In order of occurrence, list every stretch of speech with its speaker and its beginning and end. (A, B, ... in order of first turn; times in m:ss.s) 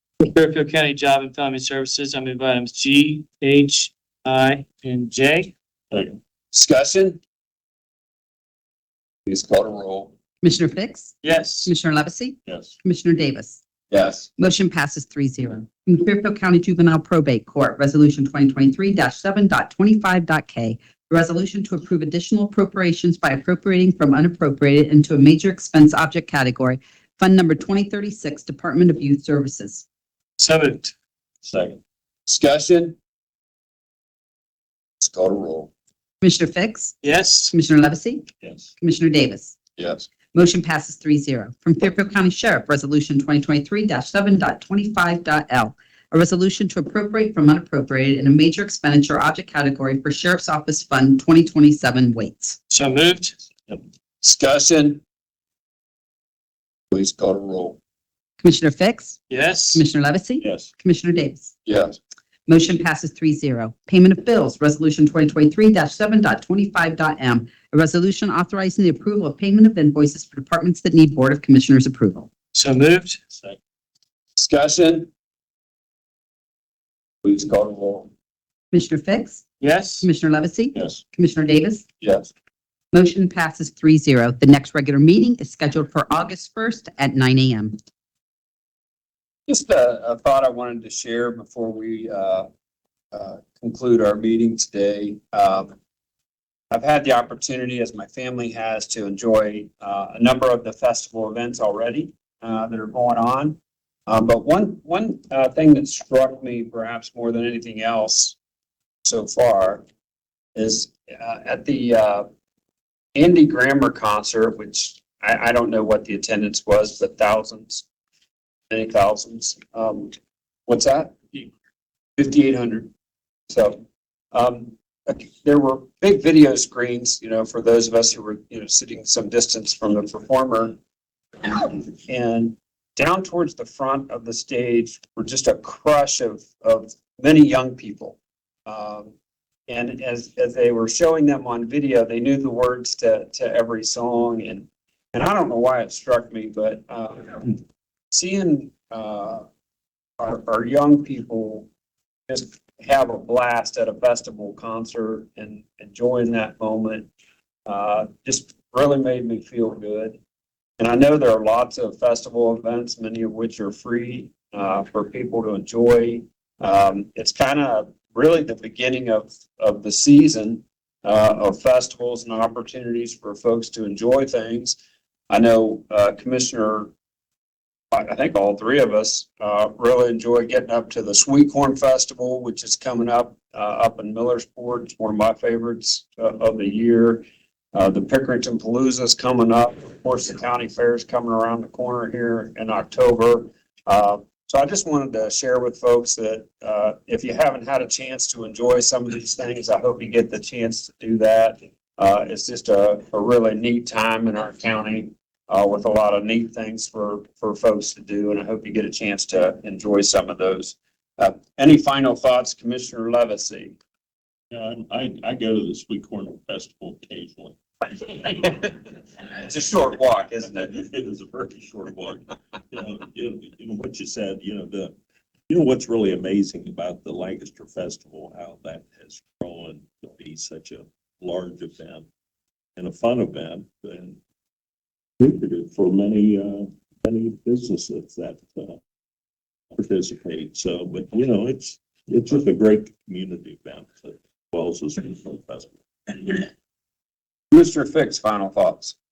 0:00.2-0:05.5 A
0:05.9-0:06.2 B
0:06.5-0:07.2 C
0:09.3-0:10.1 C
0:10.4-0:13.6 D
0:11.2-0:11.7 A
0:12.5-0:12.7 B
0:13.9-0:14.3 C
0:14.4-0:29.8 D
0:30.4-0:30.9 A
0:31.4-0:31.8 B
0:32.3-0:33.0 C
0:35.0-0:35.7 C
0:36.2-0:37.0 D
0:37.0-0:37.5 A
0:37.5-0:38.2 D
0:38.4-0:38.7 B
0:38.8-0:39.6 D
0:39.8-0:40.1 C
0:40.3-0:52.6 D
0:52.7-0:53.4 A
0:54.2-0:55.0 C
0:56.9-0:57.8 C
0:58.4-0:59.2 D
0:59.3-0:59.8 A
0:59.7-1:01.5 D
1:00.4-1:00.7 B
1:01.7-1:02.0 C
1:02.5-1:12.3 D
1:12.5-1:13.2 A
1:13.3-1:13.6 B
1:14.4-1:15.1 C
1:17.2-1:18.1 C
1:18.7-1:19.4 D
1:19.6-1:20.1 A
1:20.0-1:21.8 D
1:22.0-1:22.3 C
1:22.9-1:27.8 D
1:29.5-1:32.5 C
1:33.1-1:35.7 C
1:36.7-1:48.4 C
1:49.0-1:49.8 C
1:50.6-1:52.3 C
1:53.2-1:57.8 C
1:58.7-2:00.2 C
2:00.7-2:01.5 C
2:02.2-2:02.9 C
2:03.5-2:03.8 C
2:04.3-2:10.8 C
2:11.4-2:19.1 C
2:19.7-2:29.5 C
2:30.2-2:31.7 C
2:32.3-2:37.1 C
2:37.7-2:40.2 C
2:40.8-2:54.8 C
2:55.3-2:56.9 C
2:57.9-3:33.8 C
3:34.5-3:38.7 B
3:39.4-3:40.7 C
3:40.6-3:45.0 B
3:45.5-3:52.1 B
3:52.8-3:54.2 B
3:55.2-3:58.8 B
3:59.8-4:06.5 B
4:07.5-4:09.0 C